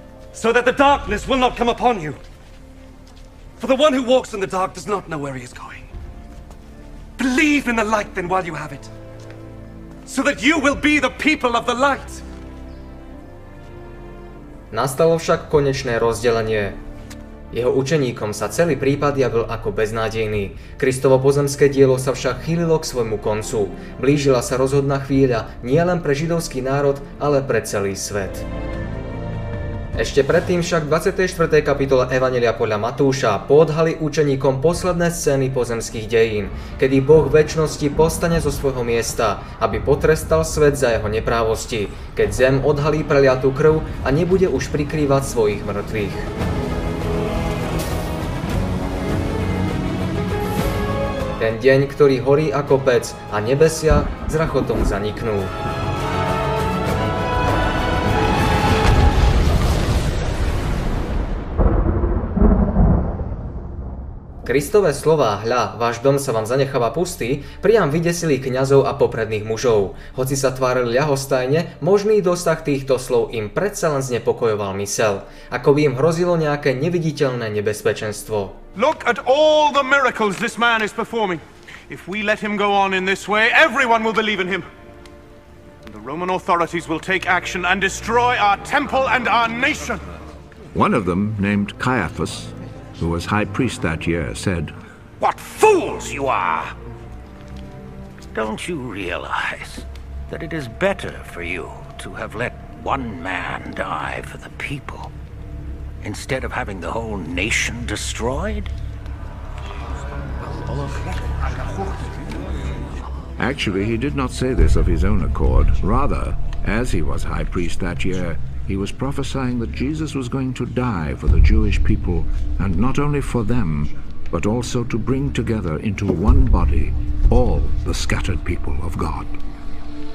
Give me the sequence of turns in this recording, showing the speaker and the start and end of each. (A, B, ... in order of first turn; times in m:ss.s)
0:00.3-0:02.2 A
0:03.6-0:05.8 A
0:07.2-0:08.9 A
0:10.0-0:12.2 A
0:14.7-0:16.8 B
0:17.5-0:28.4 B
0:29.9-0:46.3 B
0:51.4-0:55.5 B
1:04.4-1:18.6 B
1:18.7-1:24.6 C
1:25.8-1:30.0 C
1:30.7-1:34.7 D
1:35.2-1:36.7 E
1:38.3-1:45.1 E
1:46.0-1:48.7 E
1:53.4-2:09.3 D